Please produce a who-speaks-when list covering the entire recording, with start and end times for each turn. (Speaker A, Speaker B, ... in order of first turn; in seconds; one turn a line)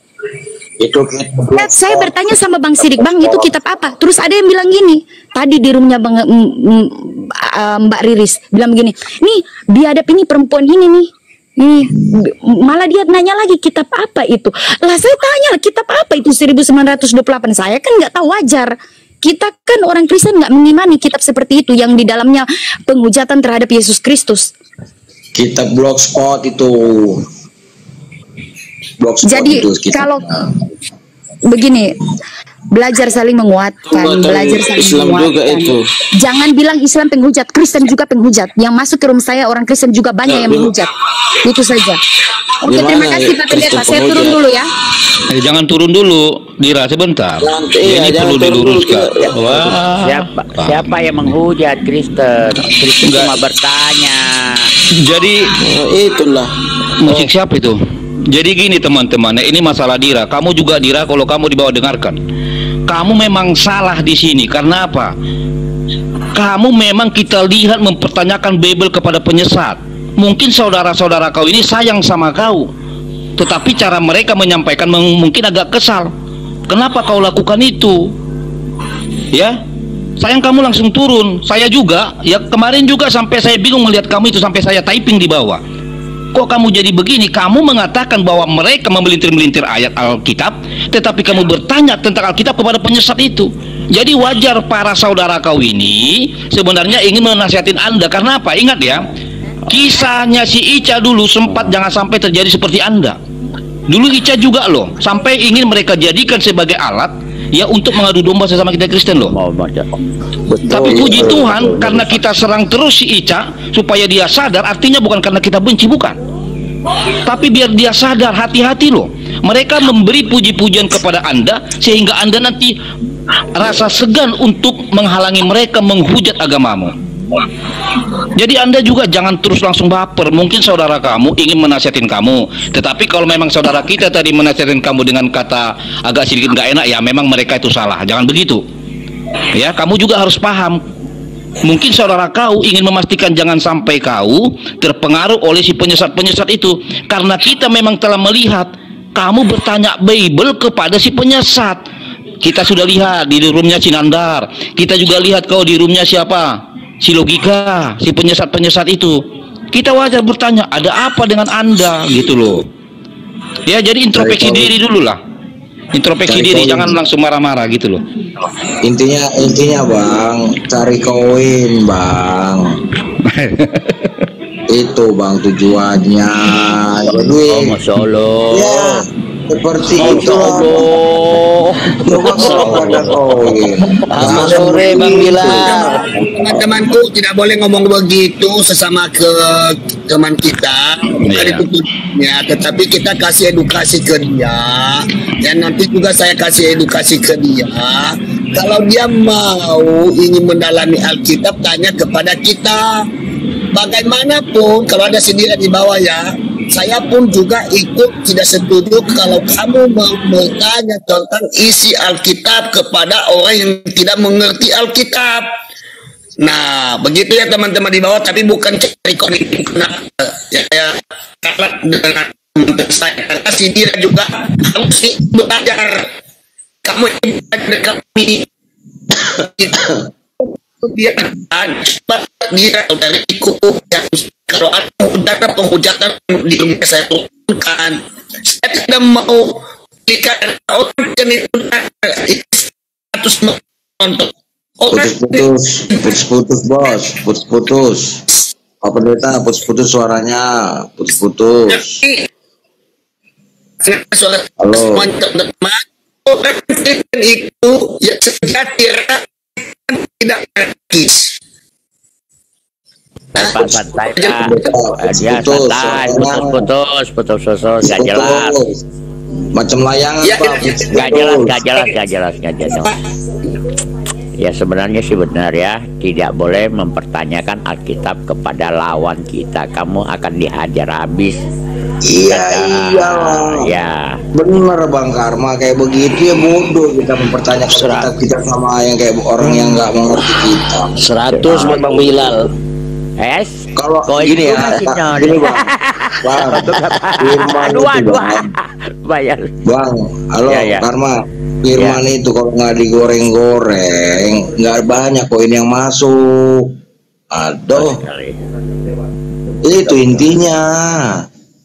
Speaker A: 0.8-2.1
Speaker B: 1.5-24.5
Speaker A: 3.0-3.5
Speaker A: 25.3-27.2
Speaker A: 29.0-30.6
Speaker B: 29.2-30.2
Speaker B: 31.5-31.9
Speaker B: 32.7-40.9
Speaker C: 33.9-35.9
Speaker C: 40.3-40.7
Speaker B: 41.4-42.0
Speaker B: 42.6-44.7
Speaker C: 42.6-44.4
Speaker D: 45.3-50.9
Speaker C: 47.4-49.8
Speaker E: 50.0-54.7
Speaker D: 53.0-53.4
Speaker D: 55.0-55.5
Speaker C: 55.6-56.5
Speaker D: 57.0-57.8
Speaker C: 57.0-57.3
Speaker D: 58.3-62.2
Speaker D: 62.9-65.1
Speaker D: 66.3-72.7
Speaker D: 73.4-76.1
Speaker D: 76.7-78.1
Speaker D: 80.2-85.6
Speaker D: 86.3-99.1
Speaker D: 99.7-103.2
Speaker D: 103.9-109.3
Speaker E: 109.3-109.9
Speaker A: 110.7-112.1
Speaker D: 110.7-116.2
Speaker E: 110.7-111.9
Speaker D: 117.2-122.8
Speaker D: 123.5-126.9
Speaker D: 128.3-138.6
Speaker D: 139.5-140.8
Speaker D: 141.6-151.8
Speaker D: 152.4-159.2
Speaker D: 159.7-162.7
Speaker D: 163.7-165.2
Speaker A: 164.1-164.7
Speaker D: 165.9-168.0
Speaker A: 166.2-167.0
Speaker A: 168.8-172.8
Speaker D: 173.2-174.0
Speaker A: 174.7-177.8
Speaker E: 177.3-179.0
Speaker A: 178.5-180.9
Speaker C: 179.9-181.1
Speaker E: 180.0-181.5
Speaker A: 182.0-186.6
Speaker C: 182.1-183.4
Speaker E: 182.1-183.1
Speaker C: 184.1-186.0
Speaker E: 184.2-185.1
Speaker F: 185.4-203.0
Speaker D: 191.2-191.6
Speaker F: 203.7-215.5
Speaker F: 216.4-226.1
Speaker F: 226.8-228.4
Speaker F: 229.2-230.1
Speaker F: 230.8-246.1
Speaker A: 244.9-248.2
Speaker A: 248.8-252.0
Speaker F: 251.7-252.3
Speaker F: 253.8-259.2
Speaker A: 254.6-255.1
Speaker F: 259.9-261.3
Speaker F: 263.4-264.6
Speaker E: 263.4-268.6
Speaker A: 264.4-266.6
Speaker A: 267.8-268.8
Speaker A: 269.5-271.6
Speaker F: 270.2-271.2
Speaker E: 270.9-272.9
Speaker F: 272.6-272.9
Speaker E: 274.4-281.4
Speaker A: 282.0-283.7
Speaker E: 282.3-284.2
Speaker A: 284.3-291.0
Speaker C: 287.7-288.1
Speaker C: 289.4-289.7
Speaker C: 290.9-292.5
Speaker E: 291.3-292.0
Speaker E: 293.2-299.5
Speaker A: 293.8-295.7
Speaker A: 296.2-298.5
Speaker A: 299.6-306.7
Speaker E: 300.5-300.9
Speaker E: 301.7-302.0
Speaker A: 307.3-308.0
Speaker E: 307.7-308.4
Speaker A: 309.6-311.2